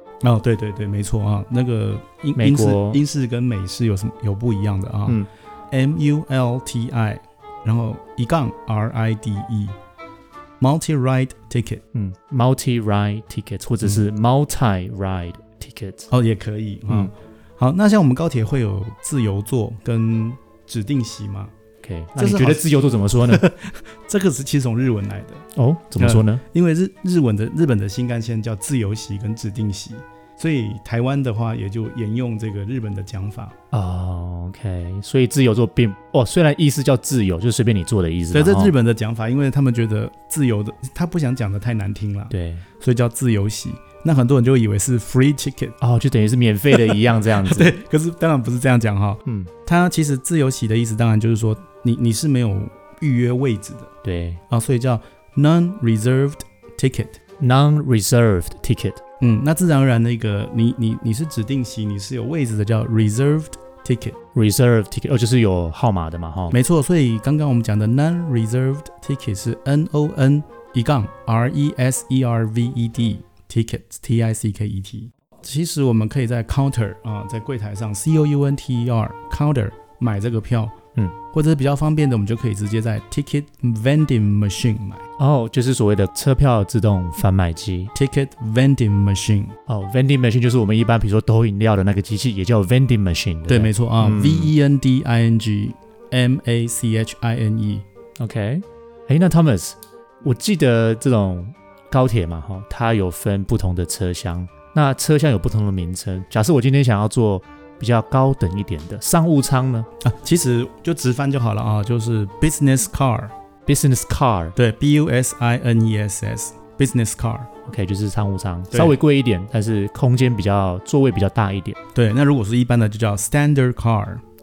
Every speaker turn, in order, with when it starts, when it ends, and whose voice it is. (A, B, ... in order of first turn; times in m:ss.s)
0:00.2-0:09.7 A
0:02.4-0:03.0 B
0:10.6-0:11.8 A
0:11.9-0:16.1 B
0:16.1-0:21.5 A
0:21.8-0:23.4 B
0:22.2-0:25.4 A
0:25.6-0:26.4 B
0:26.0-0:33.5 A
0:33.7-0:38.7 B
0:38.3-0:45.8 A
0:42.3-0:42.6 B
0:45.8-0:47.8 B
0:46.7-0:53.9 A
0:49.2-0:49.5 B
0:54.0-0:54.4 B
0:54.5-0:57.2 A
0:57.4-0:59.0 B
0:59.2-1:04.2 A
1:04.3-1:06.6 B
1:06.5-1:20.7 A
1:21.3-1:25.0 A
1:25.2-1:27.9 B
1:27.9-1:29.5 A
1:29.7-1:34.5 B
1:33.5-1:37.8 A
1:38.2-1:49.9 B
1:50.0-1:53.3 A
1:53.6-1:54.6 B
1:54.6-1:57.5 A
1:57.6-2:01.8 B
1:58.7-1:59.0 A
2:01.9-2:04.2 A